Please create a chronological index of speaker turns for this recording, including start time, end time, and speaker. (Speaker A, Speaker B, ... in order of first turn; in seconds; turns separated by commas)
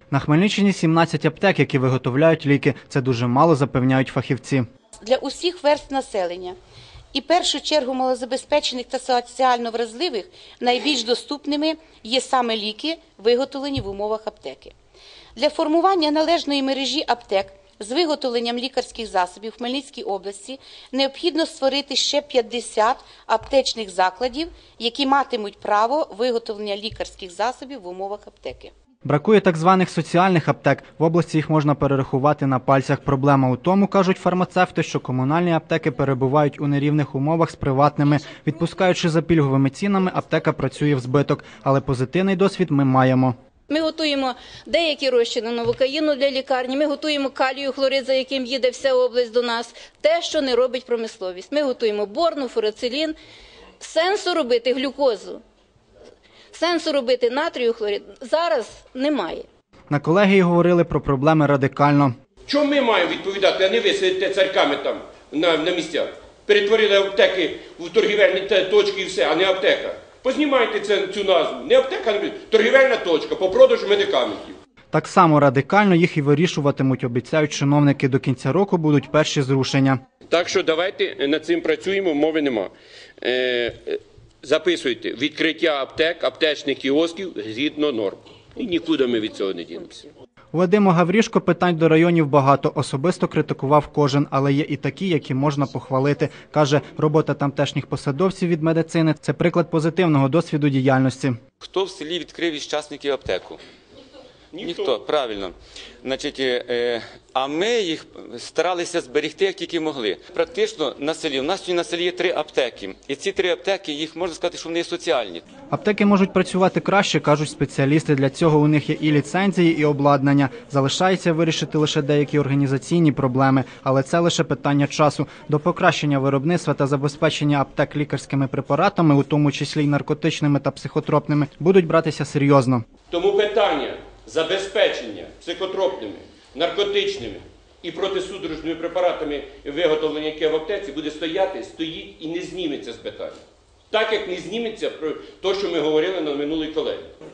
Speaker A: 0.1-4.7, Speaker B: 5.0-6.5, Speaker B: 7.1-14.7, Speaker B: 15.3-28.7, Speaker A: 29.0-43.3, Speaker C: 43.7-53.1, Speaker C: 53.8-55.4, Speaker C: 56.5-59.5, Speaker A: 59.9-62.1, Speaker D: 62.5-74.6, Speaker A: 74.9-80.0, Speaker D: 80.3-90.1, Speaker A: 90.5-101.4, Speaker E: 101.6-103.6, Speaker D: 104.5-105.0, Speaker E: 104.6-115.4, Speaker A: 115.7-132.8, Speaker D: 133.1-143.4, Speaker D: 143.9-147.1